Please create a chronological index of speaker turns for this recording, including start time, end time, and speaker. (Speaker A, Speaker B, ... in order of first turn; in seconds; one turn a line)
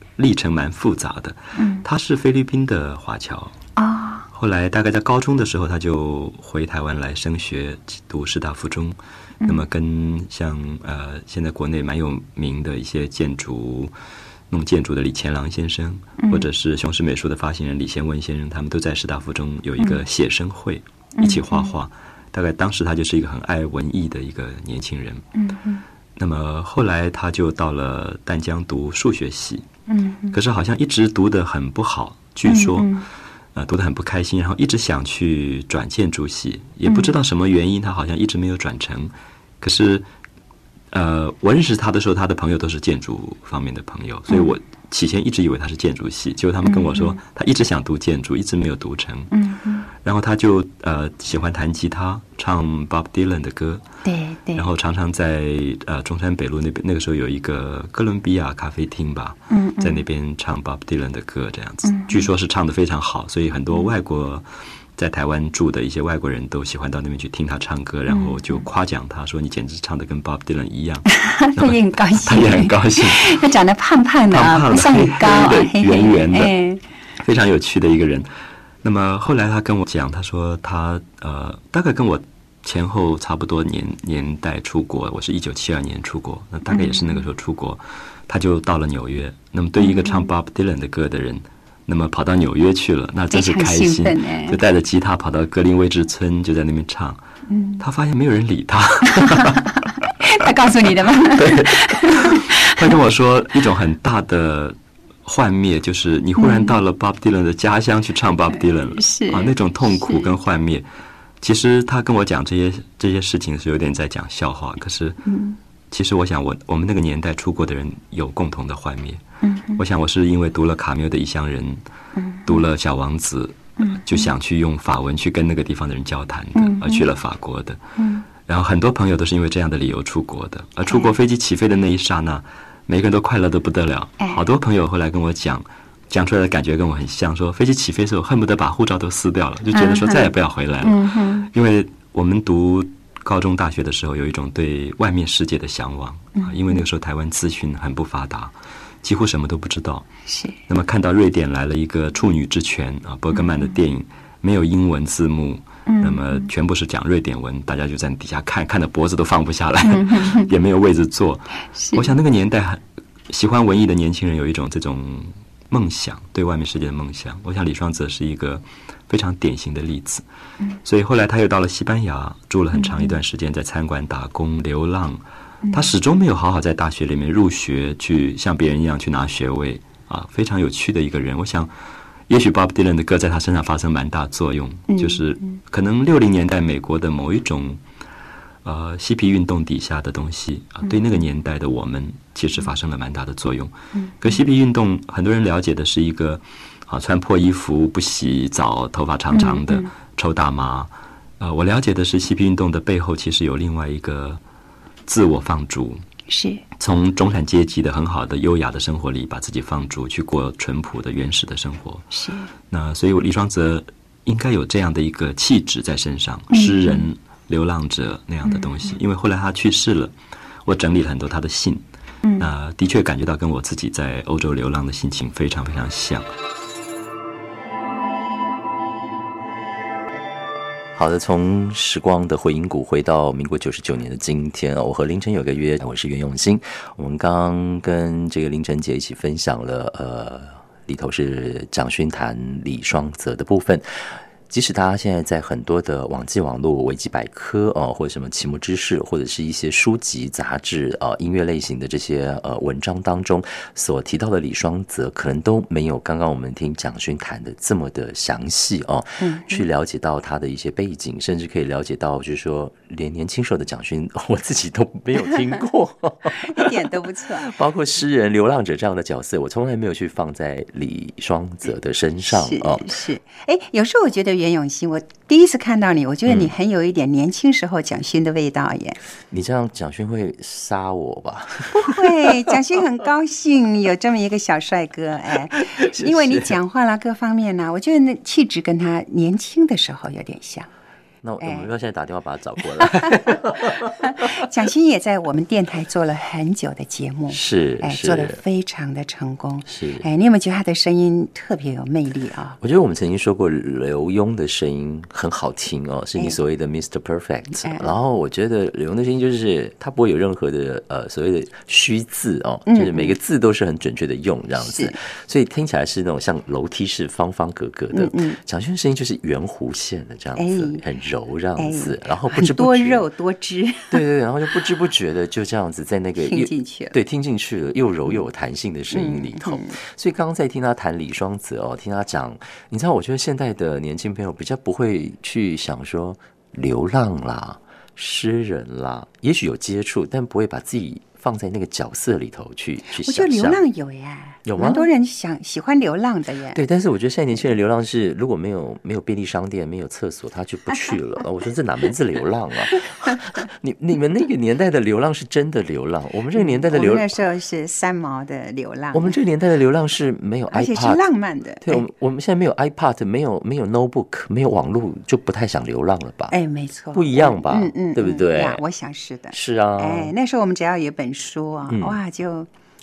Speaker A: 0.2-3.5
Speaker B: 1.6-1.8
Speaker B: 3.8-4.2
Speaker A: 4.3-13.9
Speaker A: 14.5-25.2
Speaker B: 16.2-16.5
Speaker B: 21.2-21.7
Speaker B: 25.3-25.8
Speaker A: 26.1-29.6
Speaker B: 29.9-30.4
Speaker A: 30.3-32.9
Speaker B: 32.5-33.1
Speaker A: 33.5-40.0
Speaker B: 36.9-37.1
Speaker A: 40.9-49.3
Speaker B: 44.3-44.5
Speaker B: 46.6-47.2
Speaker B: 49.3-49.9
Speaker A: 50.0-53.8
Speaker B: 54.0-54.6
Speaker A: 54.5-64.4
Speaker B: 59.5-60.0
Speaker B: 61.8-62.3
Speaker A: 65.0-73.4
Speaker B: 68.1-68.7
Speaker B: 71.1-76.8
Speaker A: 74.3-76.5
Speaker A: 77.2-78.3
Speaker A: 78.8-97.2
Speaker B: 86.7-87.2
Speaker B: 89.8-90.3
Speaker B: 93.3-94.6
Speaker B: 97.5-97.8
Speaker A: 97.8-99.7
Speaker B: 99.2-102.7
Speaker A: 101.2-110.8
Speaker B: 106.4-106.8
Speaker B: 109.0-110.3
Speaker A: 111.4-115.2
Speaker B: 115.2-115.6
Speaker A: 115.9-119.2
Speaker B: 119.4-119.8
Speaker A: 119.8-121.8
Speaker B: 122.1-122.6
Speaker A: 122.4-127.8
Speaker B: 123.8-124.3
Speaker B: 126.5-127.1
Speaker B: 128.0-128.2
Speaker A: 128.4-150.1
Speaker B: 130.8-131.1
Speaker B: 139.7-140.3
Speaker B: 140.8-141.5
Speaker B: 146.3-146.8
Speaker B: 150.3-150.6
Speaker A: 150.7-170.2
Speaker B: 155.8-156.5
Speaker B: 159.8-160.5
Speaker B: 161.7-162.1
Speaker A: 170.8-181.7
Speaker B: 172.7-173.1
Speaker B: 175.6-175.9
Speaker A: 182.3-187.8
Speaker B: 184.9-185.6
Speaker A: 188.6-204.4
Speaker B: 190.8-191.2
Speaker B: 193.9-194.3
Speaker B: 199.3-199.9
Speaker A: 205.1-206.0
Speaker B: 206.3-206.6
Speaker A: 206.8-212.0
Speaker B: 212.1-212.5
Speaker A: 212.7-220.1
Speaker B: 216.5-217.1
Speaker B: 218.4-218.9
Speaker A: 220.6-221.8
Speaker A: 222.4-226.3
Speaker C: 230.9-272.9
Speaker B: 259.2-259.6
Speaker B: 266.3-267.5
Speaker B: 272.3-279.0
Speaker C: 276.3-276.5
Speaker C: 279.3-282.5
Speaker B: 281.7-290.7
Speaker C: 285.8-286.5
Speaker C: 291.2-294.2
Speaker B: 291.4-291.7
Speaker B: 292.8-302.6
Speaker C: 297.3-298.4
Speaker C: 299.6-300.1
Speaker C: 302.6-323.0
Speaker B: 307.6-307.9
Speaker B: 312.7-313.1
Speaker B: 314.6-315.0
Speaker B: 317.9-318.4
Speaker B: 320.4-320.8
Speaker B: 321.6-324.0
Speaker C: 323.9-343.6
Speaker B: 326.2-326.9
Speaker B: 328.9-329.8
Speaker B: 342.9-346.6
Speaker C: 344.4-344.9
Speaker C: 346.5-357.1
Speaker B: 352.7-353.1
Speaker B: 356.3-359.2
Speaker C: 358.9-361.0
Speaker B: 360.5-361.8
Speaker C: 361.6-366.3
Speaker B: 366.3-372.5
Speaker C: 366.9-368.6
Speaker C: 369.3-370.1
Speaker C: 371.7-372.0